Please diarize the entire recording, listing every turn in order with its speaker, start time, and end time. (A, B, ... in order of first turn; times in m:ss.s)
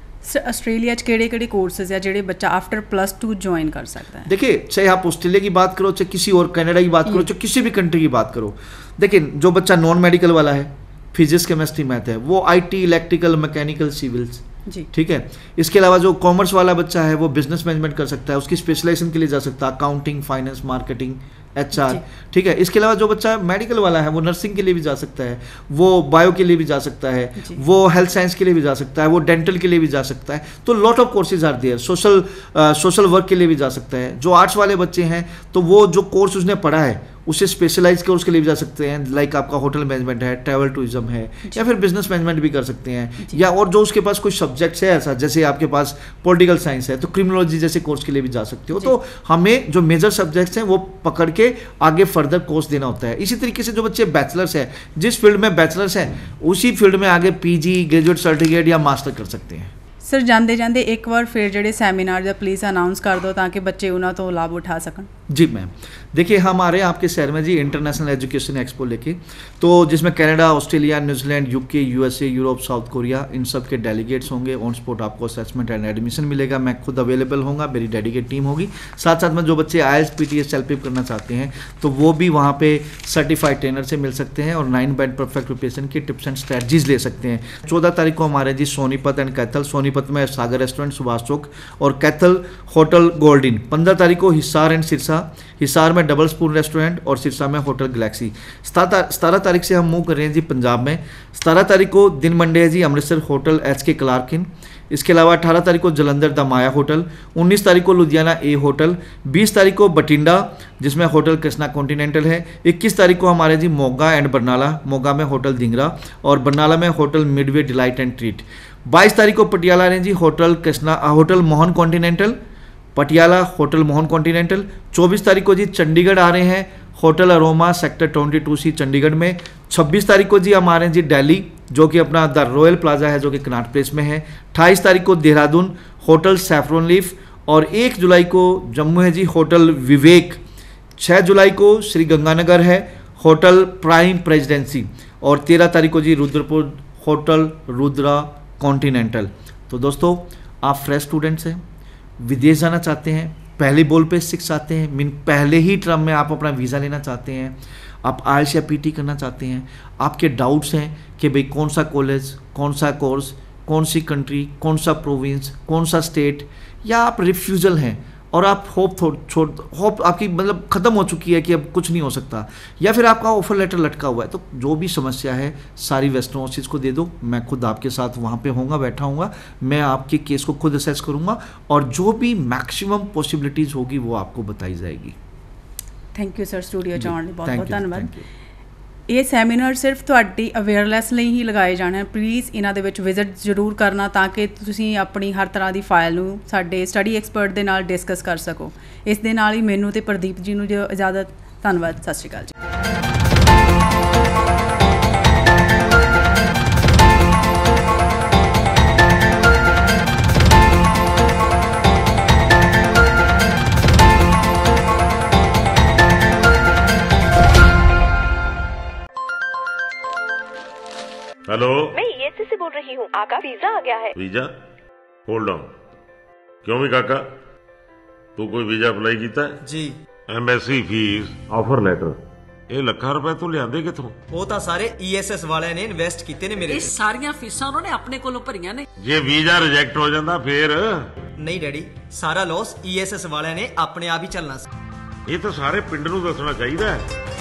0:00.2-0:04.3 A
0:04.2-0:59.7 B
0:21.7-0:22.0 A
1:00.0-1:05.1 A
1:05.3-2:02.4 B
2:02.9-2:20.4 B
2:21.0-2:31.6 B
2:32.2-3:05.2 B
3:06.1-3:08.1 A
3:07.0-3:08.2 B
3:09.1-3:22.5 A
3:41.5-3:41.9 C
3:41.9-3:44.1 D
3:44.2-3:44.5 C
3:45.3-3:45.7 C
3:46.6-3:47.3 C
3:48.4-3:49.6 C
3:49.6-3:50.0 E
3:50.3-3:52.2 C
3:52.7-3:54.2 C
3:54.3-3:56.9 E
3:56.7-3:58.9 F
3:59.0-4:01.1 C
4:01.4-4:04.6 E
4:05.3-4:07.1 C